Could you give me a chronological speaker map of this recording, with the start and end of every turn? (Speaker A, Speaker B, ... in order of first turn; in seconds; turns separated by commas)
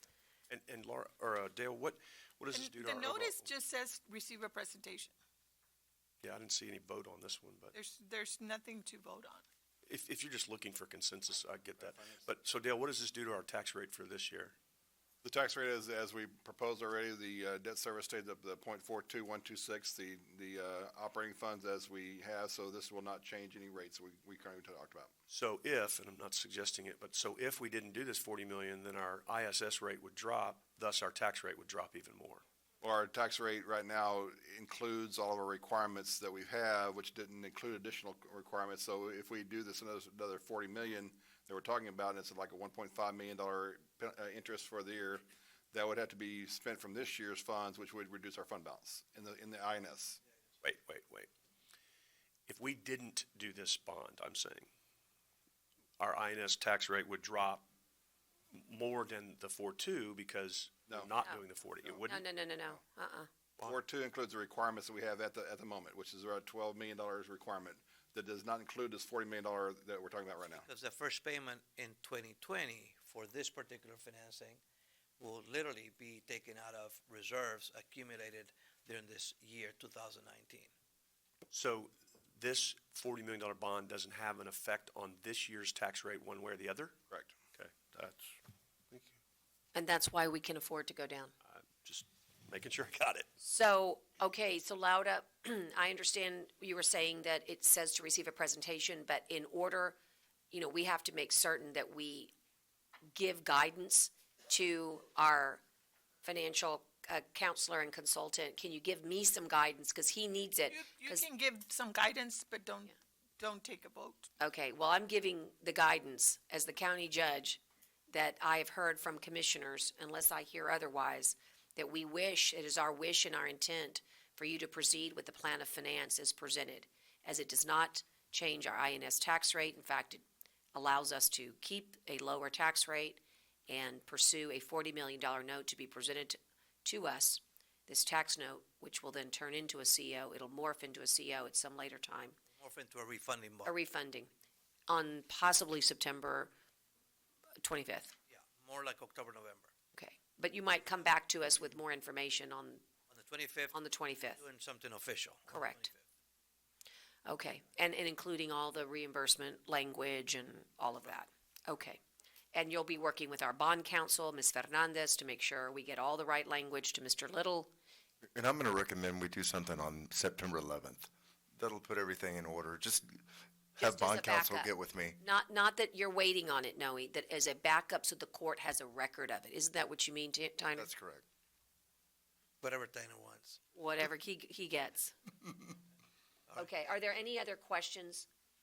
Speaker A: 0.5-3.5, Speaker B: 2.5-5.1, Speaker A: 6.2-7.7, Speaker B: 7.7-9.4, Speaker A: 9.8-14.5, Speaker C: 11.8-12.3, Speaker C: 15.2-25.1, Speaker A: 25.3-32.4, Speaker C: 32.8-50.2, Speaker A: 50.6-51.3, Speaker A: 52.5-54.7, Speaker A: 56.0-57.6, Speaker A: 58.5-62.2, Speaker D: 62.1-63.3, Speaker C: 63.6-70.7, Speaker E: 70.5-74.6, Speaker E: 75.2-80.7, Speaker A: 81.5-87.0, Speaker A: 87.5-88.4, Speaker D: 89.7-91.3, Speaker A: 91.4-93.3, Speaker D: 93.4-100.0, Speaker D: 100.5-102.3, Speaker D: 103.1-105.6, Speaker D: 106.2-111.2, Speaker B: 110.7-114.3, Speaker D: 114.4-142.4, Speaker E: 142.6-143.7, Speaker D: 143.7-144.3, Speaker D: 144.9-146.5, Speaker D: 147.6-148.2, Speaker E: 148.3-149.7, Speaker D: 149.9-152.8, Speaker E: 153.1-153.8, Speaker D: 153.7-154.4, Speaker E: 154.3-156.1, Speaker D: 155.5-155.9, Speaker D: 157.2-162.0, Speaker D: 162.5-167.7, Speaker F: 168.3-173.2, Speaker F: 173.8-175.2, Speaker D: 173.8-180.9, Speaker F: 180.8-181.2, Speaker E: 182.6-183.6, Speaker D: 183.8-185.2, Speaker D: 186.6-188.3